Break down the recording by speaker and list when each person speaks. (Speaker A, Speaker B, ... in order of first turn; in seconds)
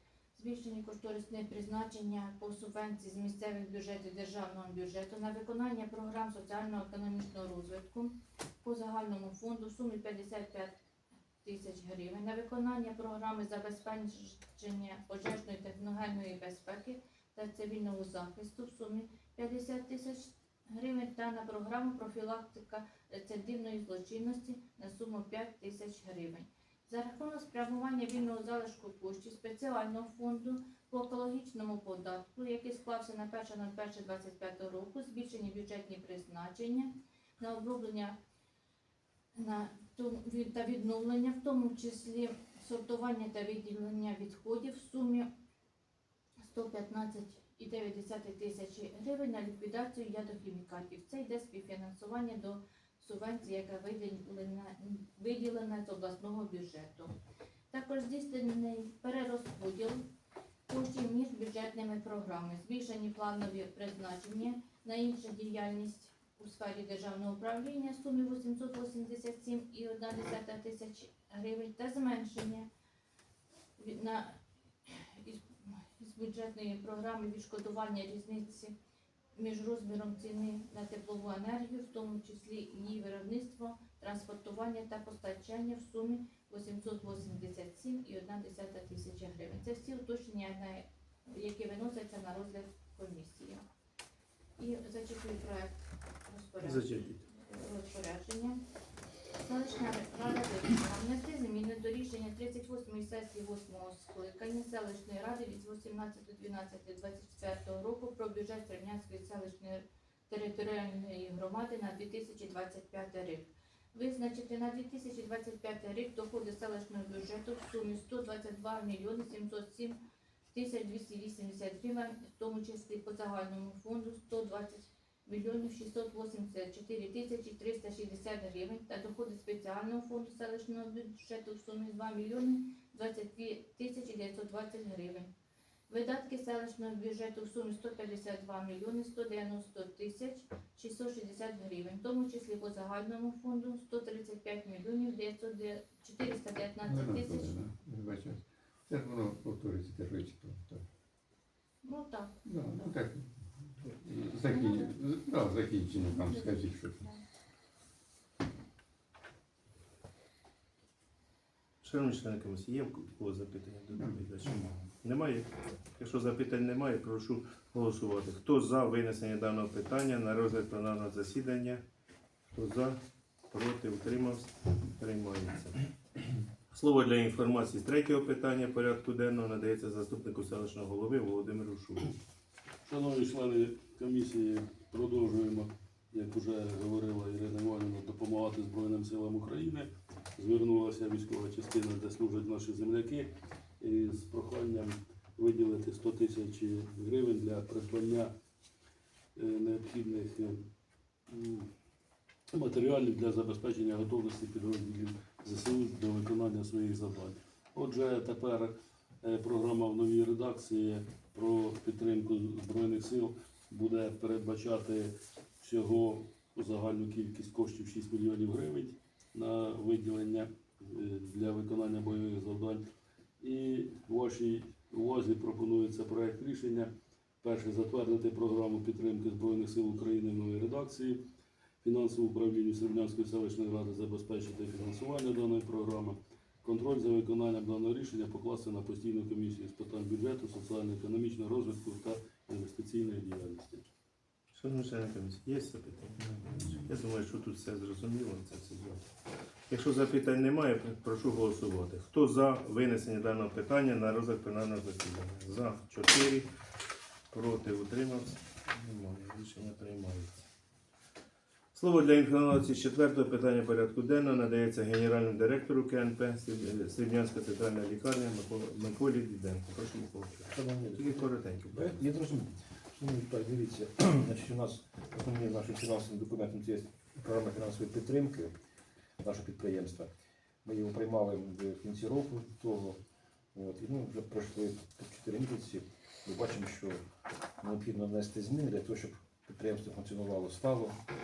Speaker A: 0.3-10.7, 11.4-38.1, 39.4-45.2, 46.4-57.1, 57.7-60.0, 60.7-72.7, 73.8-75.5, 76.0-78.7, 79.3-93.6, 94.6-98.6, 99.4-120.0, 120.5-135.3, 135.9-147.5, 151.8-152.3, 154.4-154.9, 156.0-157.2
Speaker B: 96.6-97.3, 161.8-171.8, 172.5-173.0, 173.5-175.8, 176.7-182.1, 244.5-249.0, 249.7-256.5, 257.3-260.5, 261.7-272.0
Speaker C: 146.8-150.8, 152.4-157.1, 164.0-164.2
Speaker D: 182.8-198.3, 199.3-200.6, 201.3-201.7, 202.5-222.8, 223.4-226.9, 227.4-231.2, 231.8-243.8
Speaker E: 270.5-278.5, 279.2-280.1, 280.6-283.0, 283.5-287.0, 287.6-291.0